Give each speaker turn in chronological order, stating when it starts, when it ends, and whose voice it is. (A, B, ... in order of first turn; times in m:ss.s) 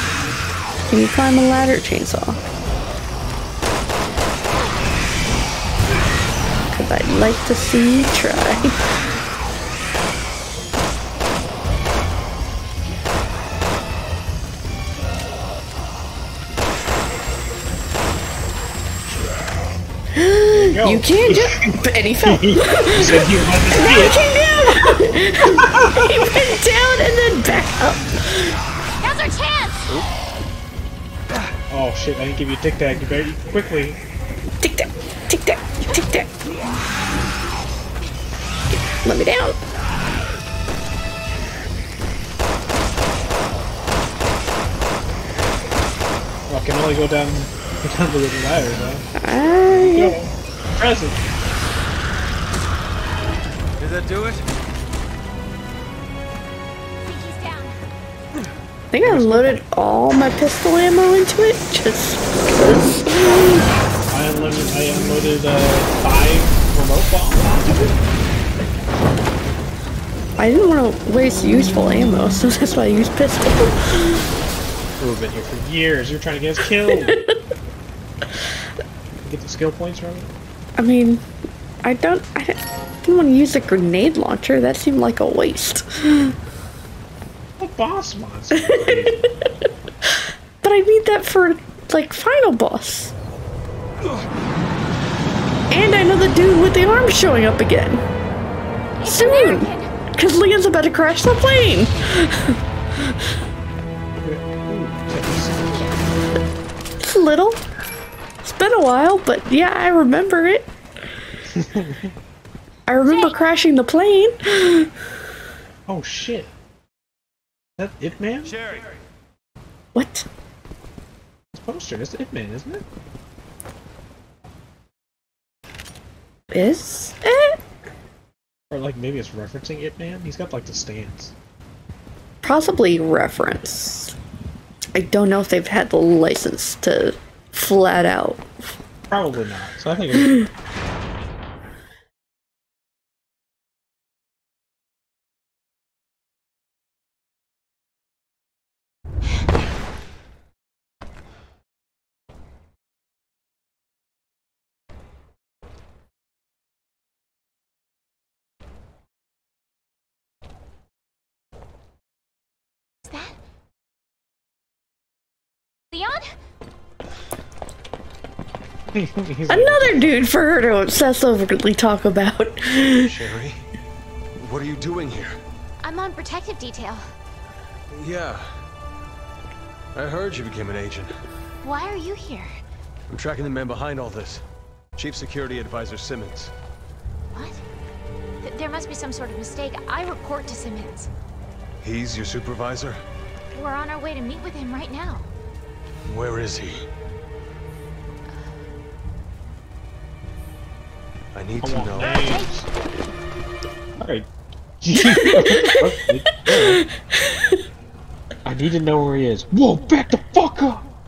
0:00.9-0:02.4 A
0:06.7-0:08.8 A
0:20.1-0:28.6 A
0:20.5-0:24.2 B
0:25.5-0:26.5 B
0:29.0-0:29.8 C
0:31.7-0:34.0 B
0:34.6-0:36.3 A
0:39.0-0:39.6 A
0:46.5-0:51.2 B
0:49.2-0:50.1 A
0:53.8-0:54.4 D
0:57.0-0:57.8 C
0:58.9-1:03.6 A
0:59.0-0:59.6 B
1:02.6-1:03.3 B
1:04.1-1:08.1 B
1:10.4-1:14.3 A
1:15.0-1:17.2 B
1:16.9-1:17.3 A
1:19.2-1:20.3 B
1:20.8-1:21.2 A
1:21.8-1:26.4 A
1:27.6-1:29.2 B
1:28.5-1:29.5 A
1:30.0-1:33.1 A
1:35.7-1:38.0 A
1:39.0-1:39.9 C
1:39.0-1:43.2 A
1:44.2-1:45.9 B
1:47.0-1:47.6 A
1:48.4-1:50.7 A
1:51.5-1:52.1 B
1:52.9-1:54.9 A
1:53.0-1:53.5 C
1:55.9-1:56.5 B
1:57.8-1:58.6 B
1:58.4-1:59.0 D
1:59.9-2:00.3 A
2:01.5-2:02.8 B
2:06.5-2:07.6 A
2:08.7-2:11.3 B
2:12.4-2:14.1 A
2:14.9-2:18.4 A
2:19.1-2:20.4 B
2:43.0-2:43.4 C
2:45.9-2:46.3 C
2:48.9-2:50.3 B
2:49.5-2:53.1 A
2:52.9-2:53.6 D
2:54.4-2:55.4 D
2:55.8-2:57.0 C
2:57.9-2:58.4 D
2:59.9-3:01.2 D
3:01.6-3:02.5 C
3:03.1-3:04.4 D
3:05.0-3:06.5 D
3:07.3-3:07.6 C
3:08.4-3:11.1 C
3:11.8-3:13.0 D
3:13.5-3:15.3 C
3:16.1-3:16.8 D
3:21.3-3:22.2 D
3:21.6-3:22.7 B
3:22.0-3:22.5 C
3:24.0-3:24.3 B
3:24.8-3:26.8 B
3:25.0-3:25.8 A
3:26.5-3:27.6 A
3:28.4-3:30.8 B